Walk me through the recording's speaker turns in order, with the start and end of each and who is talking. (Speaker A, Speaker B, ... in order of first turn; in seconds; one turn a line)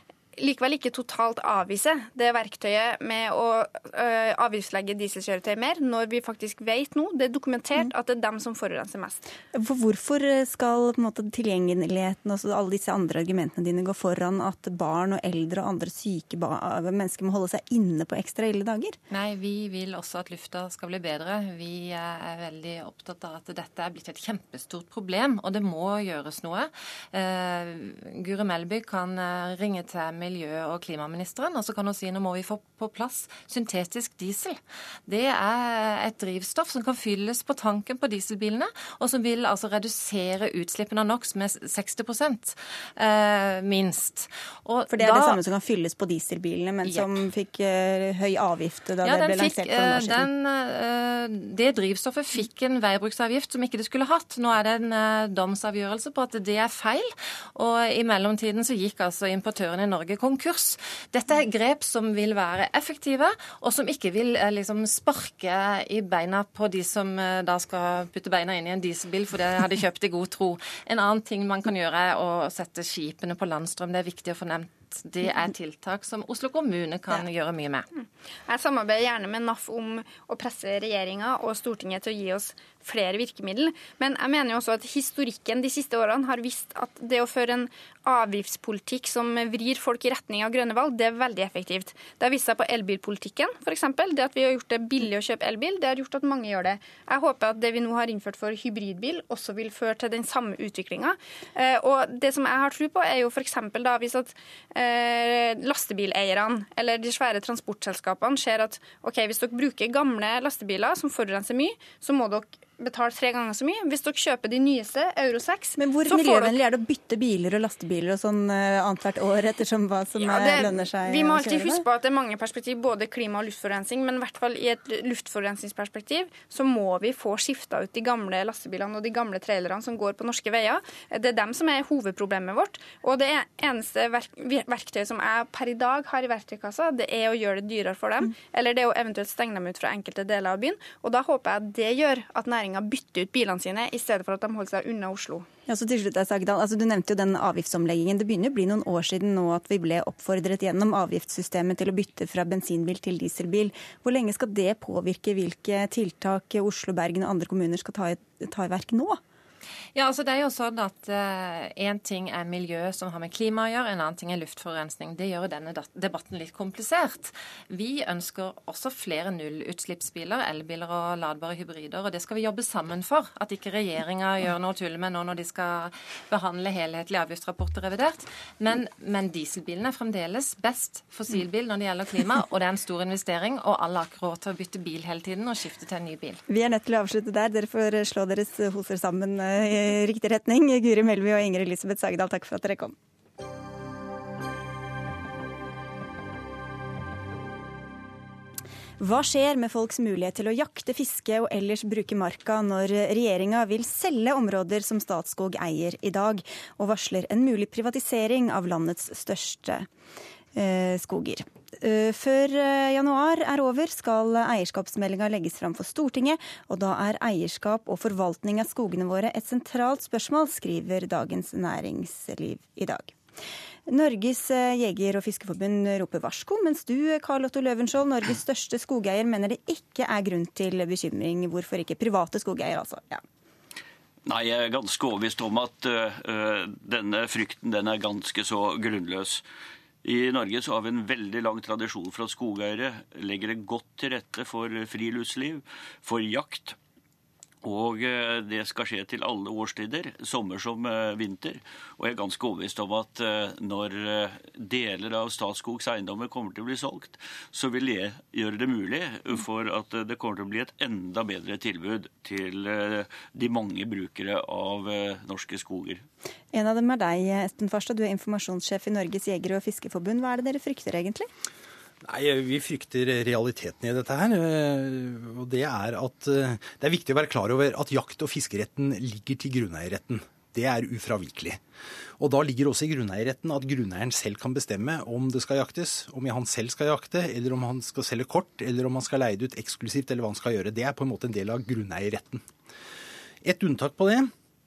Speaker A: 0.4-9.2
Speaker B: 9.5-19.0
Speaker C: 19.1-45.4
Speaker B: 44.9-50.3
Speaker C: 46.9-47.1
Speaker C: 49.0-77.9
Speaker A: 78.0-116.5
Speaker B: 115.8-121.8
Speaker A: 120.2-145.4
Speaker B: 145.7-159.2
Speaker C: 159.9-186.4
Speaker B: 186.5-192.9
Speaker B: 199.0-209.9
Speaker B: 210.5-223.2
Speaker B: 223.9-233.2
Speaker D: 234.2-239.4
Speaker D: 240.0-246.8
Speaker D: 247.6-266.0
Speaker B: 266.5-271.3
Speaker E: 272.0-281.6
Speaker E: 282.2-292.4
Speaker E: 293.4-294.3